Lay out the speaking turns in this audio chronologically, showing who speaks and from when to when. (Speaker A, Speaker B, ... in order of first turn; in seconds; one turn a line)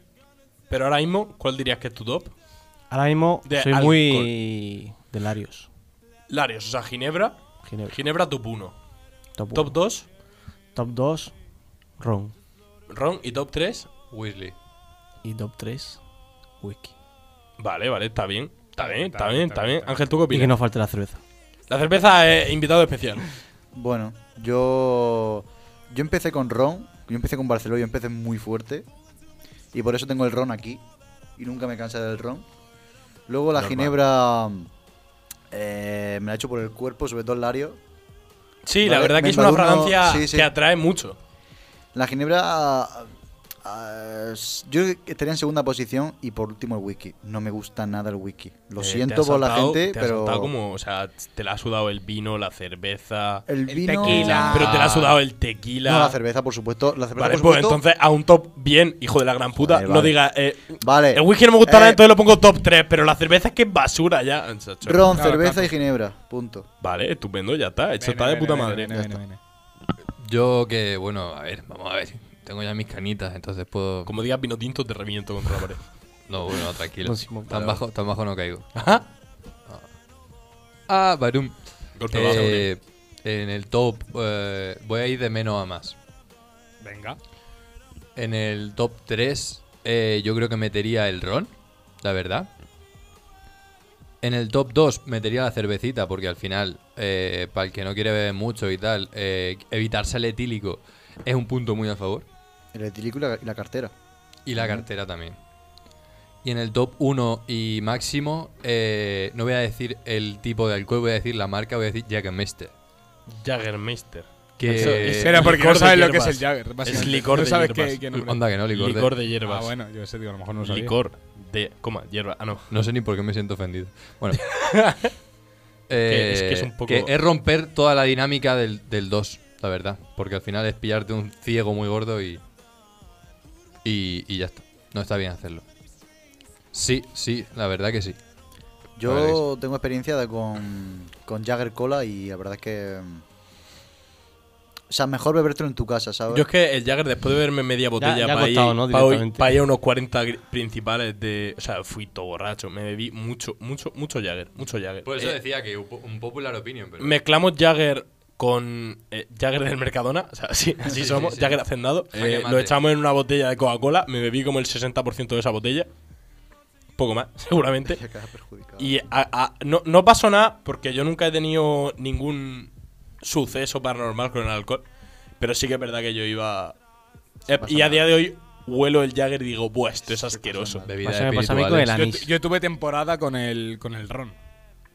Speaker A: 0.7-2.3
Speaker B: 2.9-5.7
Speaker A: 3.5-4.3
Speaker A: 6.3-8.8
Speaker B: 7.6-8.0
Speaker B: 9.4-9.8
Speaker A: 9.5-10.1
Speaker B: 10.7-11.3
Speaker B: 12.0-12.3
Speaker A: 12.9-13.9
Speaker C: 14.1-14.6
Speaker B: 15.2-16.0
Speaker B: 16.6-16.9
Speaker A: 17.6-20.6
Speaker D: 18.8-20.0
Speaker B: 20.3-21.2
Speaker A: 21.7-23.3
Speaker E: 23.7-28.9
Speaker E: 29.7-30.8
Speaker E: 31.4-32.5
Speaker E: 33.3-34.7
Speaker C: 33.6-33.9
Speaker E: 35.5-37.8
Speaker A: 38.6-41.2
Speaker E: 38.8-40.5
Speaker E: 41.9-43.1
Speaker E: 43.6-50.5
Speaker A: 48.8-53.5
Speaker E: 53.5-54.8
Speaker D: 53.7-54.8
Speaker A: 54.0-56.2
Speaker C: 54.5-55.2
Speaker E: 55.8-57.8
Speaker A: 57.2-65.1
Speaker E: 59.6-60.2
Speaker E: 60.8-62.0
Speaker E: 64.8-66.7
Speaker D: 65.2-65.7
Speaker A: 66.8-69.0
Speaker D: 68.0-69.4
Speaker C: 70.2-74.1
Speaker A: 74.1-75.8
Speaker C: 76.3-78.9
Speaker B: 77.0-77.8
Speaker A: 78.8-79.1
Speaker C: 80.9-86.0
Speaker A: 82.0-82.7
Speaker D: 86.8-87.2
Speaker C: 88.2-92.5
Speaker C: 94.2-102.3
Speaker E: 102.7-103.9
Speaker C: 104.5-105.4
Speaker E: 104.6-104.9
Speaker C: 106.4-112.7
Speaker A: 113.3-118.1
Speaker C: 114.6-115.6
Speaker D: 114.8-118.4
Speaker C: 118.1-119.1
Speaker A: 118.6-119.7
Speaker D: 119.4-121.0
Speaker A: 120.6-122.7
Speaker C: 122.7-124.5
Speaker A: 124.5-125.1
Speaker C: 125.9-132.4
Speaker A: 126.1-127.1
Speaker C: 133.8-135.7
Speaker C: 136.7-138.2
Speaker E: 139.0-143.2
Speaker C: 139.0-139.4
Speaker E: 144.9-146.5
Speaker A: 146.3-155.4
Speaker B: 148.0-149.6
Speaker C: 155.1-157.2
Speaker A: 157.0-165.9
Speaker C: 160.9-161.6
Speaker C: 162.1-162.8
Speaker A: 167.0-168.0
Speaker E: 167.8-168.9
Speaker A: 168.8-174.8
Speaker A: 175.4-176.8
Speaker A: 177.5-180.9
Speaker E: 177.5-178.1
Speaker E: 180.1-181.0
Speaker C: 180.8-182.0
Speaker B: 181.0-182.3
Speaker D: 181.9-184.3